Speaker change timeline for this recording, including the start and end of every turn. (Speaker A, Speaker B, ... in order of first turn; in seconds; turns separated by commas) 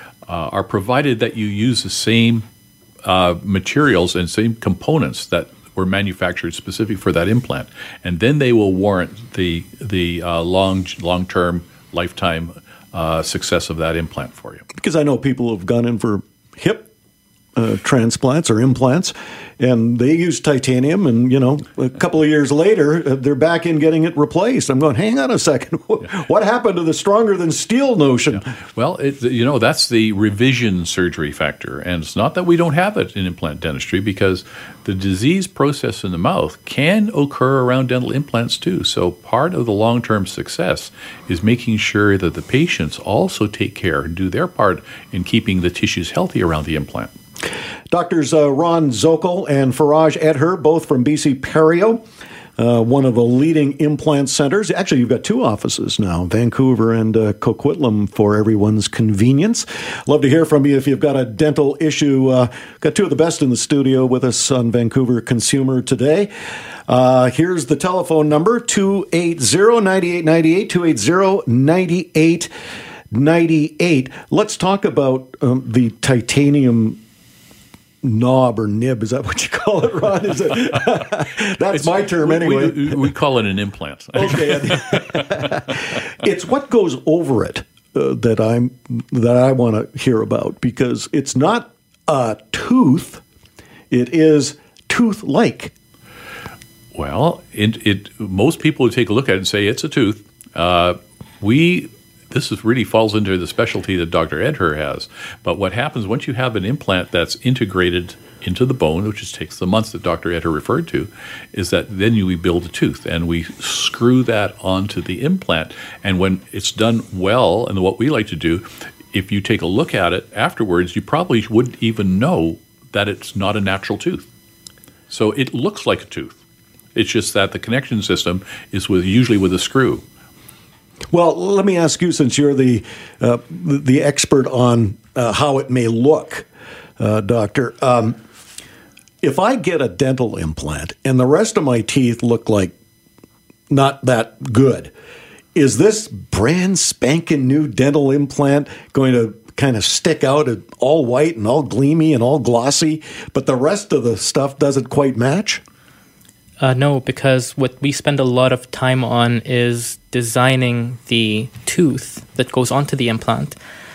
Speaker A: 0.3-2.5, Speaker A: 3.0-14.7, Speaker B: 14.8-16.9, Speaker B: 17.6-28.5, Speaker A: 28.3-47.1, Speaker B: 47.9-52.0, Speaker B: 52.6-66.3, Speaker B: 66.9-72.5, Speaker B: 73.1-77.0, Speaker B: 78.0-83.1, Speaker A: 81.7-85.6, Speaker B: 84.2-93.2, Speaker B: 93.9-95.7, Speaker A: 96.9-124.3, Speaker A: 125.1-126.4, Speaker A: 127.0-130.0, Speaker B: 131.1-136.5, Speaker B: 137.0-138.2, Speaker B: 139.2-142.7, Speaker B: 143.7-144.9, Speaker B: 145.6-155.6, Speaker C: 156.6-163.6